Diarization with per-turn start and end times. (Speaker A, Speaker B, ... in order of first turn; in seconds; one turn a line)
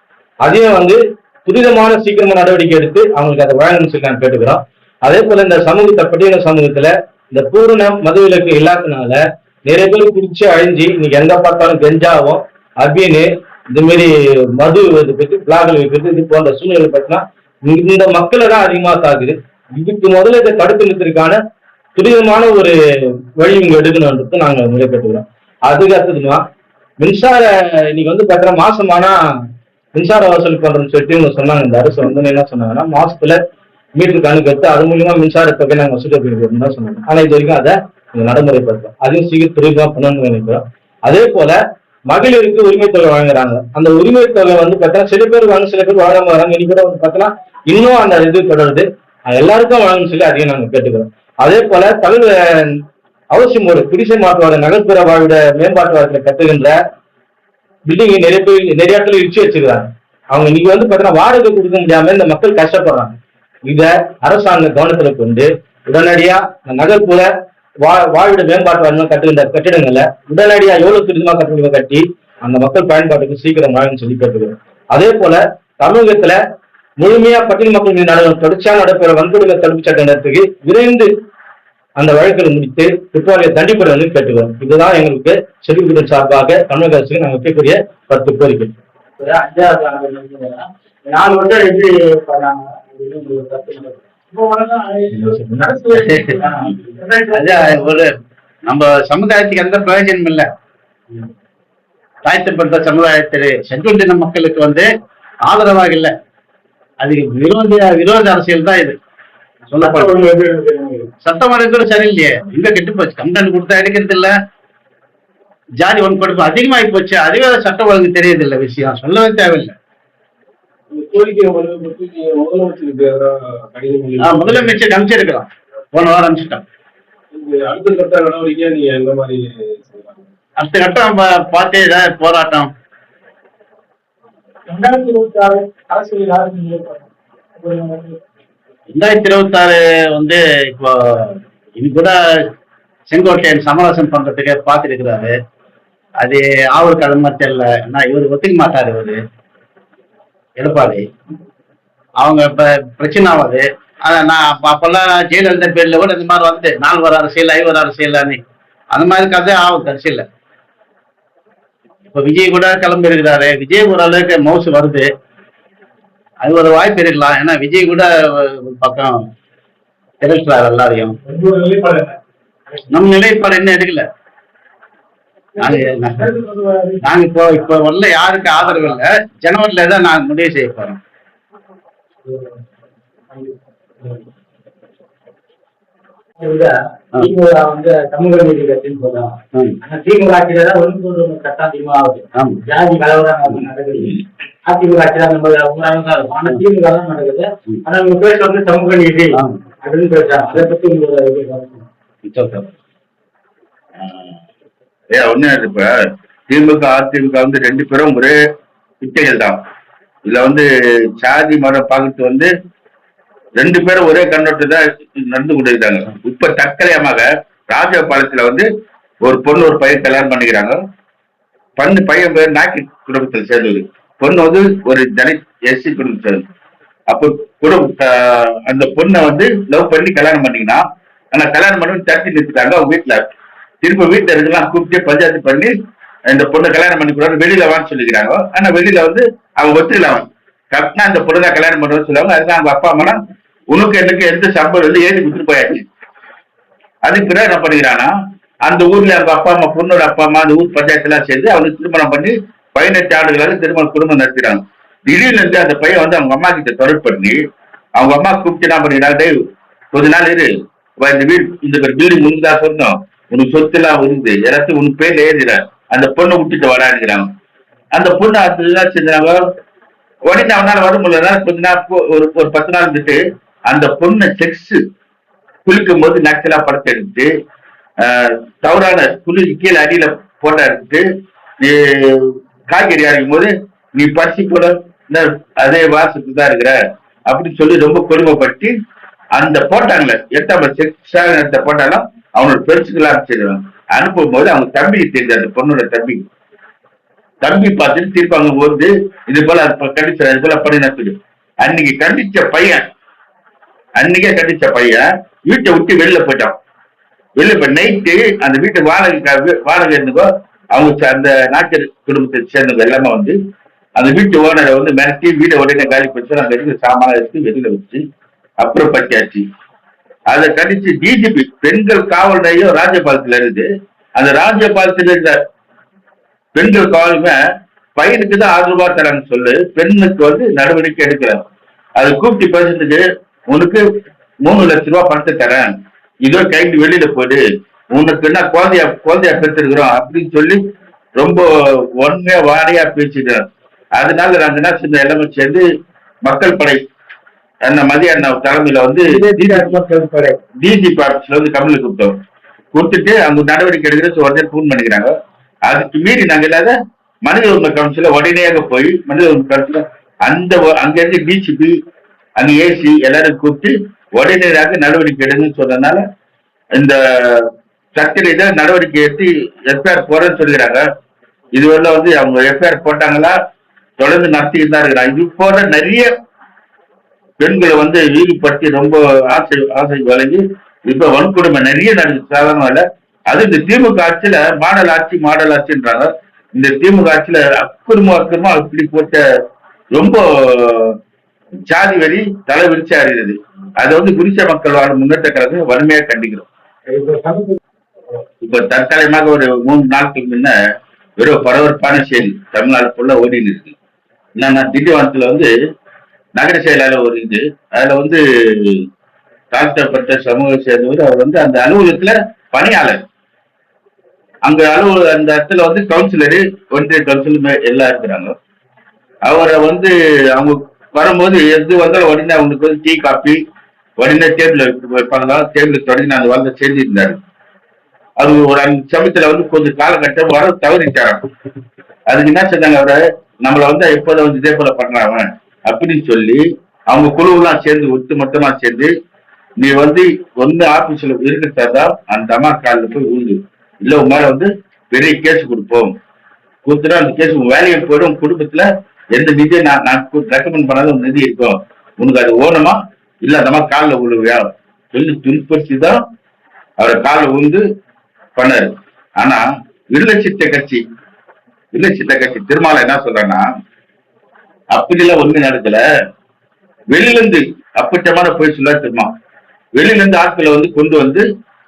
Speaker A: 0.4-21.4
Speaker A: 21.9-22.7
Speaker A: 23.4-26.4
Speaker A: 27.0-29.1
Speaker A: 29.9-33.4
Speaker A: 34.0-41.6
Speaker A: 42.1-52.8
Speaker A: 53.3-56.8
Speaker A: 57.9-63.1
Speaker A: 63.6-67.3
Speaker A: 67.8-76.4
Speaker A: 77.0-81.1
Speaker A: 82.0-88.7
Speaker B: 89.2-98.0
Speaker A: 95.1-95.8
Speaker C: 95.9-96.3
Speaker C: 97.3-98.1
Speaker C: 98.7-100.4
Speaker C: 102.2-104.8
Speaker C: 105.5-106.1
Speaker C: 107.0-109.0
Speaker C: 109.7-110.2
Speaker B: 109.7-111.1
Speaker C: 111.2-114.3
Speaker C: 115.8-119.7
Speaker D: 120.9-124.8
Speaker C: 124.2-126.6
Speaker D: 127.3-130.2
Speaker C: 130.6-132.7
Speaker B: 134.7-137.0
Speaker B: 137.6-138.2
Speaker C: 138.9-142.1
Speaker C: 143.1-145.3
Speaker C: 146.2-149.2
Speaker C: 150.6-151.0
Speaker C: 152.2-158.4
Speaker C: 158.9-160.2
Speaker C: 162.1-165.1
Speaker C: 166.4-169.1
Speaker C: 170.2-171.2
Speaker B: 171.2-172.1
Speaker C: 172.9-174.0
Speaker B: 175.6-177.0
Speaker C: 175.6-176.3
Speaker C: 177.0-181.0
Speaker B: 178.6-179.0
Speaker B: 183.3-184.2
Speaker B: 186.4-201.8
Speaker C: 202.3-202.7
Speaker E: 204.0-204.3
Speaker E: 205.1-208.3
Speaker E: 209.0-209.6
Speaker E: 210.2-210.6
Speaker E: 211.2-212.5
Speaker E: 213.6-218.7
Speaker E: 219.2-220.8
Speaker E: 221.8-226.4
Speaker E: 227.1-233.2
Speaker E: 233.8-235.7
Speaker E: 236.3-243.2
Speaker E: 243.7-245.8
Speaker E: 247.0-248.1
Speaker E: 248.7-257.4
Speaker E: 257.9-259.3
Speaker E: 259.9-260.5
Speaker E: 261.0-267.3
Speaker E: 267.9-269.4
Speaker E: 270.3-274.8
Speaker E: 275.6-277.3
Speaker E: 278.0-281.0
Speaker E: 281.6-286.8
Speaker E: 287.3-288.7
Speaker E: 289.4-296.2
Speaker E: 297.4-302.9
Speaker E: 304.0-306.5
Speaker E: 307.4-313.4
Speaker E: 314.0-318.0
Speaker E: 318.6-319.4
Speaker E: 320.3-325.4
Speaker E: 326.5-327.4
Speaker E: 327.9-331.4
Speaker E: 332.0-333.8
Speaker E: 334.4-335.7
Speaker E: 336.2-337.4
Speaker E: 337.9-340.6
Speaker E: 341.2-341.4
Speaker E: 342.0-343.4
Speaker E: 344.0-345.6
Speaker E: 346.2-346.8
Speaker E: 347.6-349.8
Speaker B: 349.3-350.3
Speaker E: 350.6-352.1
Speaker E: 352.7-355.1
Speaker E: 355.6-361.7
Speaker E: 362.4-366.0
Speaker E: 366.7-370.8
Speaker E: 371.5-373.3
Speaker E: 374.0-376.1
Speaker E: 377.4-389.2
Speaker E: 389.9-390.9
Speaker E: 391.7-396.4
Speaker B: 396.9-397.6
Speaker E: 398.4-400.5
Speaker E: 401.2-403.7
Speaker E: 404.4-405.5
Speaker E: 406.3-408.8
Speaker E: 409.5-413.0
Speaker E: 414.4-418.3
Speaker E: 419.2-423.4
Speaker E: 424.0-427.2
Speaker E: 428.2-431.3
Speaker E: 432.1-438.9
Speaker E: 439.6-445.9
Speaker E: 446.6-456.0
Speaker E: 456.8-457.6
Speaker E: 458.4-460.8
Speaker E: 461.7-463.4
Speaker E: 464.7-465.8
Speaker E: 466.9-469.1
Speaker E: 469.8-471.2